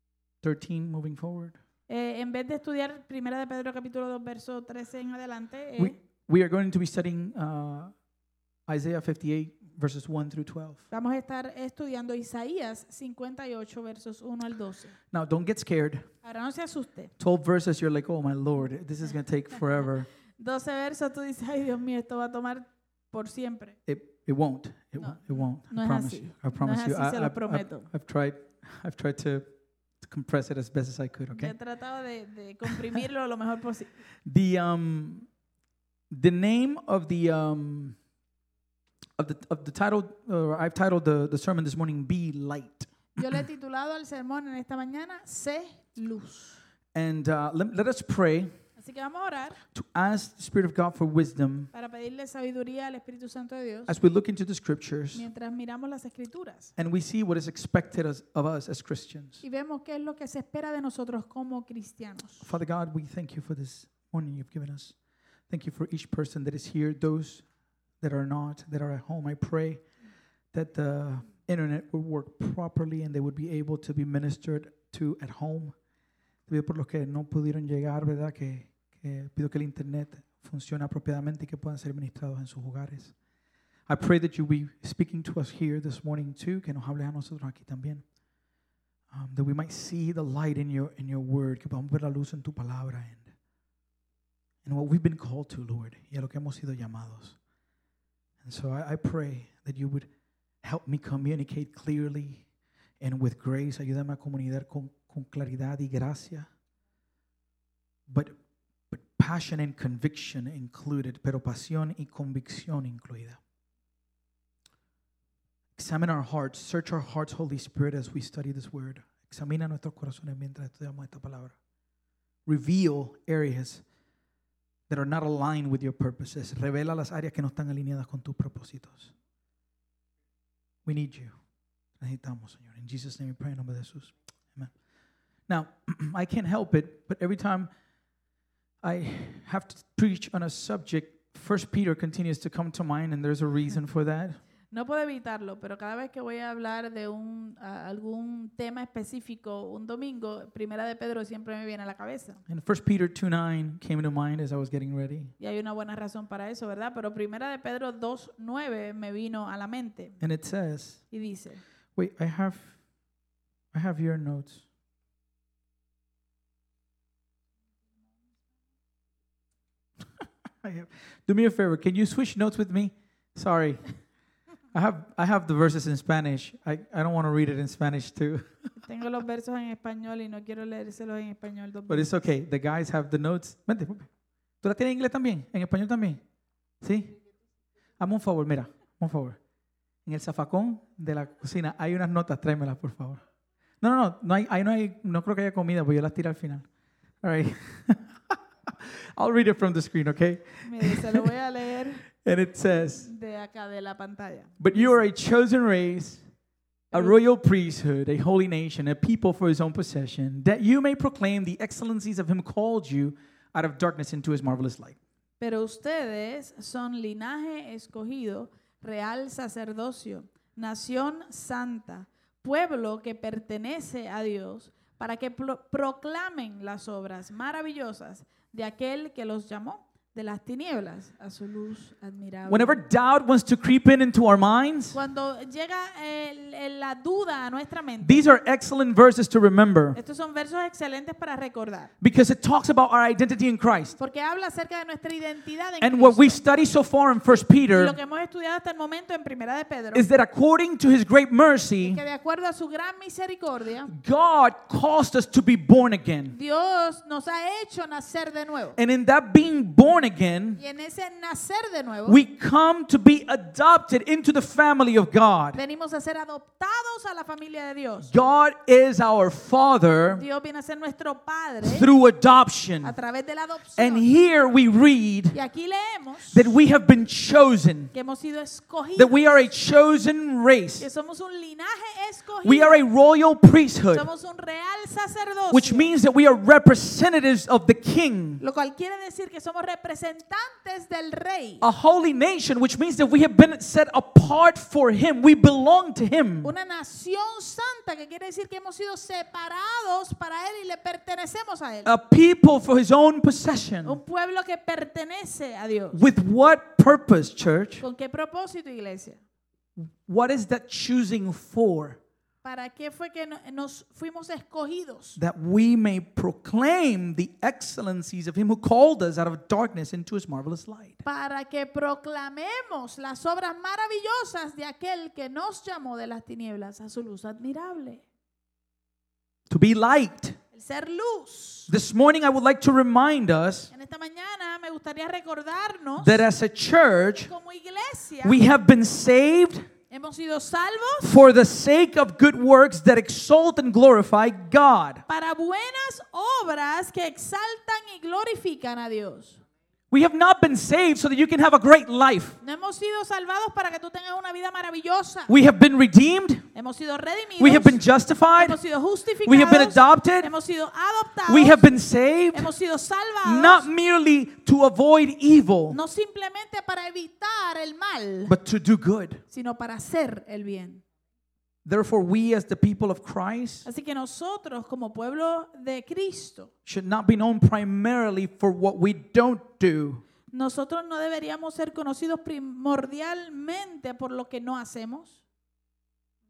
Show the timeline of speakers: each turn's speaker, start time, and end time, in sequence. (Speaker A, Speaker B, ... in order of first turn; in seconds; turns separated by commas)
Speaker A: 0.4-1.6, Speaker B: 1.9-5.9, Speaker A: 5.8-7.9, Speaker A: 8.7-10.8, Speaker B: 10.9-14.9, Speaker A: 15.1-16.1, Speaker B: 16.2-17.1, Speaker A: 17.2-20.1, Speaker B: 20.4-23.8, Speaker A: 23.9-29.4, Speaker B: 25.0-27.9, Speaker A: 30.0-31.5, Speaker B: 31.3-33.9, Speaker A: 34.2-35.3, Speaker A: 36.1-38.0, Speaker A: 39.2-43.4, Speaker B: 43.1-46.6, Speaker A: 46.9-48.5, Speaker B: 48.8-49.6, Speaker A: 49.7-51.7, Speaker B: 51.7-53.9, Speaker A: 53.9-55.2, Speaker B: 55.1-56.7, Speaker A: 56.8-59.4, Speaker B: 59.4-62.5, Speaker A: 62.4-64.9, Speaker A: 65.5-67.4, Speaker A: 68.0-69.8, Speaker A: 70.5-75.7, Speaker A: 76.5-83.1, Speaker A: 83.9-88.0, Speaker A: 89.1-93.3, Speaker A: 94.6-97.4, Speaker A: 98.4-100.1, Speaker A: 100.6-102.4, Speaker A: 103.0-106.5, Speaker A: 108.1-108.3, Speaker A: 108.9-113.4, Speaker A: 115.8-121.5, Speaker A: 122.5-123.8, Speaker A: 124.9-129.1, Speaker A: 130.8-131.3, Speaker A: 132.0-134.7, Speaker A: 135.5-137.7, Speaker A: 138.8-144.4, Speaker B: 144.7-152.4, Speaker A: 152.5-155.3, Speaker B: 155.4-160.2, Speaker A: 160.2-161.0, Speaker B: 161.1-161.6, Speaker A: 161.9-162.7, Speaker A: 163.7-164.6, Speaker A: 170.6-173.9, Speaker A: 174.7-178.5, Speaker B: 178.8-182.2, Speaker A: 181.9-184.1, Speaker A: 184.6-186.2, Speaker A: 186.8-187.1, Speaker A: 188.0-189.4, Speaker A: 190.1-193.2, Speaker A: 193.8-196.7, Speaker A: 197.2-201.3, Speaker B: 200.6-202.0, Speaker A: 202.2-203.1, Speaker B: 203.0-204.9, Speaker A: 204.6-206.2, Speaker A: 206.9-215.0, Speaker B: 206.9-207.2, Speaker B: 215.4-232.8, Speaker A: 232.5-235.0, Speaker B: 234.9-238.3, Speaker A: 238.0-240.0, Speaker B: 239.9-241.9, Speaker A: 242.0-243.9, Speaker B: 244.0-246.4, Speaker A: 245.8-248.0, Speaker B: 247.3-250.1, Speaker A: 249.9-252.0, Speaker B: 251.8-253.9, Speaker A: 253.9-256.4, Speaker B: 256.3-258.8, Speaker A: 258.8-260.6, Speaker B: 260.6-262.2, Speaker A: 262.1-265.6, Speaker B: 265.5-268.1, Speaker A: 268.0-270.2, Speaker B: 270.1-271.9, Speaker A: 271.6-272.9, Speaker B: 272.8-274.0, Speaker A: 273.8-275.4, Speaker B: 275.3-276.5, Speaker A: 276.3-277.9, Speaker B: 277.9-279.4, Speaker A: 278.9-280.9, Speaker B: 280.8-282.8, Speaker A: 282.4-284.1, Speaker B: 283.9-285.9, Speaker A: 285.5-288.4, Speaker B: 288.4-291.6, Speaker A: 291.6-296.5, Speaker B: 296.4-301.9, Speaker A: 301.8-304.0, Speaker B: 303.8-306.0, Speaker A: 305.9-307.8, Speaker B: 307.8-309.2, Speaker A: 309.8-312.0, Speaker B: 312.4-315.2, Speaker A: 315.2-321.0, Speaker B: 321.0-328.0, Speaker A: 329.5-330.4, Speaker B: 330.5-331.7, Speaker A: 331.7-333.7, Speaker B: 333.7-336.2, Speaker A: 336.0-337.3, Speaker B: 337.3-338.4, Speaker A: 338.2-339.7, Speaker B: 339.9-341.1, Speaker A: 341.0-345.0, Speaker B: 345.1-349.4, Speaker A: 349.9-352.4, Speaker B: 352.4-355.3, Speaker A: 355.3-356.4, Speaker B: 356.5-357.8, Speaker A: 357.4-358.6, Speaker B: 358.3-361.8, Speaker A: 359.2-360.3, Speaker A: 361.3-362.5, Speaker B: 362.3-363.7, Speaker A: 363.2-365.8, Speaker B: 365.7-368.3, Speaker A: 368.2-369.2, Speaker B: 369.3-370.8, Speaker A: 371.6-373.7, Speaker B: 373.6-376.5, Speaker A: 376.6-380.0, Speaker B: 380.3-385.2